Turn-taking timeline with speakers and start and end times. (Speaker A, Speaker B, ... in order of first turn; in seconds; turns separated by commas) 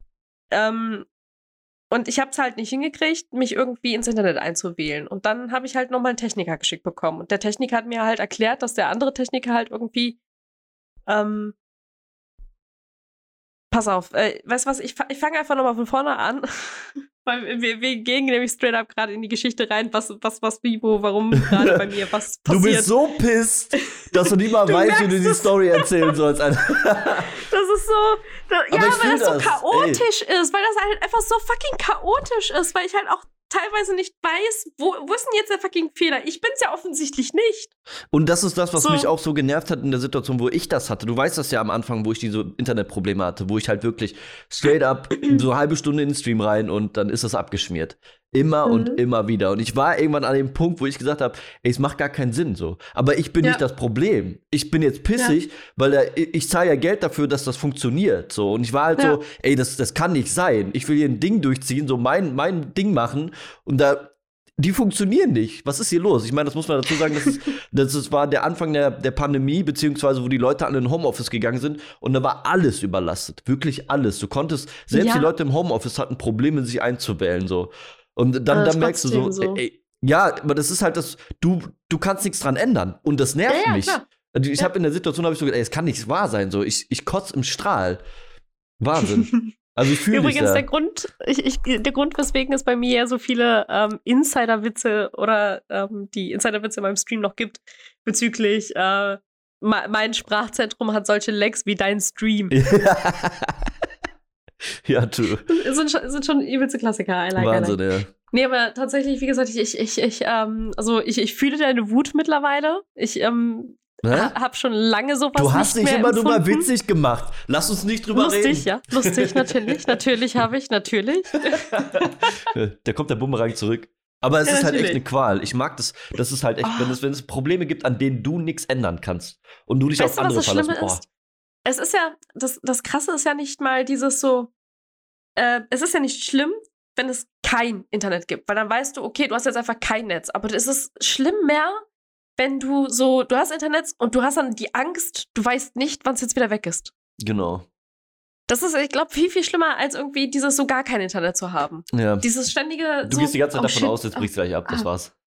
Speaker A: 0.5-1.1, Speaker A: 1.9-10.2, Speaker A: 11.1-11.6, Speaker A: 13.7-22.9, Speaker B: 21.4-21.8, Speaker B: 22.5-27.4, Speaker A: 24.6-25.9, Speaker A: 27.4-37.7, Speaker B: 28.7-30.0, Speaker B: 38.1-88.0, Speaker A: 38.8-39.1, Speaker A: 48.6-49.0, Speaker A: 74.9-75.3, Speaker A: 78.5-79.6, Speaker A: 83.5-84.0, Speaker B: 88.8-90.7, Speaker A: 89.0-89.4, Speaker A: 90.1-102.5, Speaker B: 102.5-103.7, Speaker B: 104.8-105.5, Speaker A: 105.5-107.8, Speaker B: 107.4-108.1, Speaker A: 108.3-116.7, Speaker B: 114.0-114.3, Speaker B: 115.3-119.8, Speaker A: 118.1-122.3, Speaker B: 121.5-131.0, Speaker A: 124.5-125.0, Speaker A: 126.6-127.0, Speaker A: 130.0-131.0, Speaker A: 131.6-134.5, Speaker A: 135.3-141.8, Speaker A: 142.4-146.9, Speaker B: 147.2-147.7, Speaker A: 148.5-154.9, Speaker B: 151.9-152.3, Speaker B: 153.0-155.1